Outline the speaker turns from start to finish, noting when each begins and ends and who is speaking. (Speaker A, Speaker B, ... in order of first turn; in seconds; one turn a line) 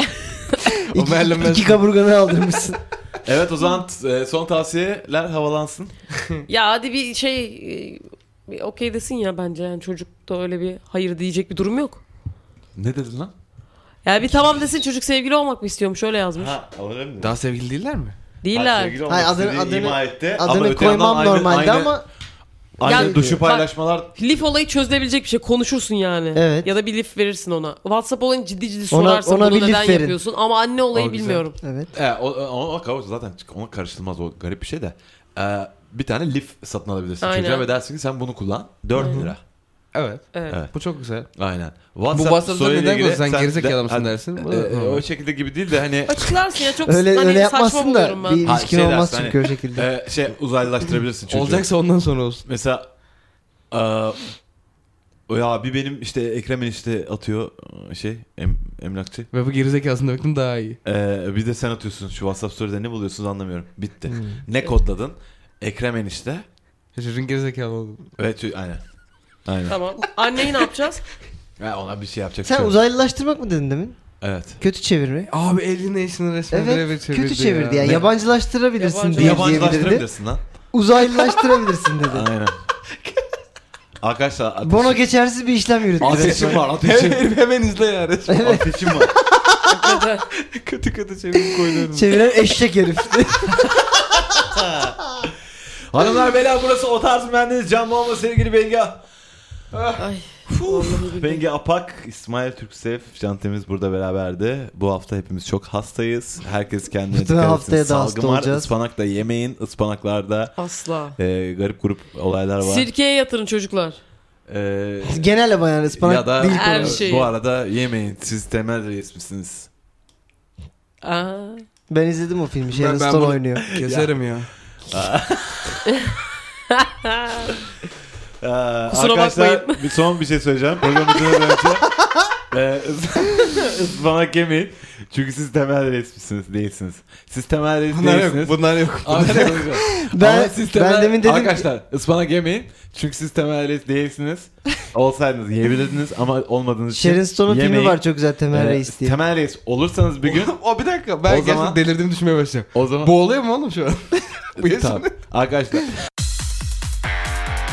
Speaker A: 0.3-0.6
Speaker B: 0.9-2.8
Speaker C: 0.9-1.8
Speaker D: 3.2-5.9
Speaker A: 6.5-12.0
Speaker D: 12.8-13.3
Speaker A: 14.0-16.5
Speaker D: 16.4-17.4
Speaker C: 17.2-18.2
Speaker A: 18.4-19.0
Speaker D: 18.5-22.0
Speaker B: 19.1-22.1
Speaker D: 22.8-24.1
Speaker B: 22.8-23.4
Speaker A: 22.8-31.6
Speaker B: 26.4-26.7
Speaker B: 28.9-30.2
Speaker C: 31.0-31.4
Speaker B: 31.6-31.9
Speaker D: 31.9-39.4
Speaker A: 37.2-37.7
Speaker A: 39.0-39.3
Speaker C: 39.9-41.3
Speaker A: 40.3-40.6
Speaker D: 41.4-46.3
Speaker C: 42.1-45.0
Speaker A: 46.1-48.4
Speaker B: 46.9-49.9
Speaker D: 48.4-51.7
Speaker C: 51.3-52.4
Speaker D: 52.5-52.9
Speaker D: 53.7-54.2
Speaker D: 55.3-59.3
Speaker C: 59.3-60.8
Speaker D: 60.9-66.5
Speaker B: 64.1-64.4
Speaker C: 67.0-68.0
Speaker D: 68.2-68.8
Speaker D: 69.5-69.8
Speaker A: 69.7-71.0
Speaker D: 71.6-72.8
Speaker B: 72.4-74.0
Speaker D: 74.2-74.6
Speaker B: 74.6-75.3
Speaker C: 75.3-78.0
Speaker B: 76.5-80.1
Speaker A: 78.8-79.9
Speaker D: 79.2-80.4
Speaker B: 80.7-82.3
Speaker D: 82.1-82.6
Speaker D: 84.0-85.0
Speaker B: 84.7-86.6
Speaker D: 86.0-87.3
Speaker C: 86.0-88.5
Speaker B: 88.3-88.7
Speaker D: 88.4-89.1
Speaker C: 89.1-92.5
Speaker A: 89.7-90.3
Speaker B: 91.6-93.8
Speaker D: 94.4-95.0
Speaker D: 95.9-99.0
Speaker C: 99.7-100.0
Speaker A: 100.0-101.5
Speaker D: 100.7-110.6
Speaker B: 107.1-108.7
Speaker A: 110.6-111.2
Speaker D: 111.2-112.9
Speaker A: 112.6-114.0
Speaker D: 114.5-115.3
Speaker B: 115.1-117.0
Speaker D: 115.9-119.7
Speaker A: 116.5-117.3
Speaker A: 121.0-121.6
Speaker B: 121.9-123.7
Speaker C: 122.7-124.5
Speaker D: 123.7-124.2
Speaker D: 124.9-125.8
Speaker A: 126.7-127.5
Speaker D: 128.4-131.9
Speaker A: 128.9-129.8
Speaker D: 132.5-150.6
Speaker C: 137.9-139.7
Speaker B: 139.9-141.7
Speaker B: 146.9-149.2
Speaker C: 150.2-155.1
Speaker D: 151.2-151.8
Speaker D: 152.7-153.1
Speaker D: 154.6-155.9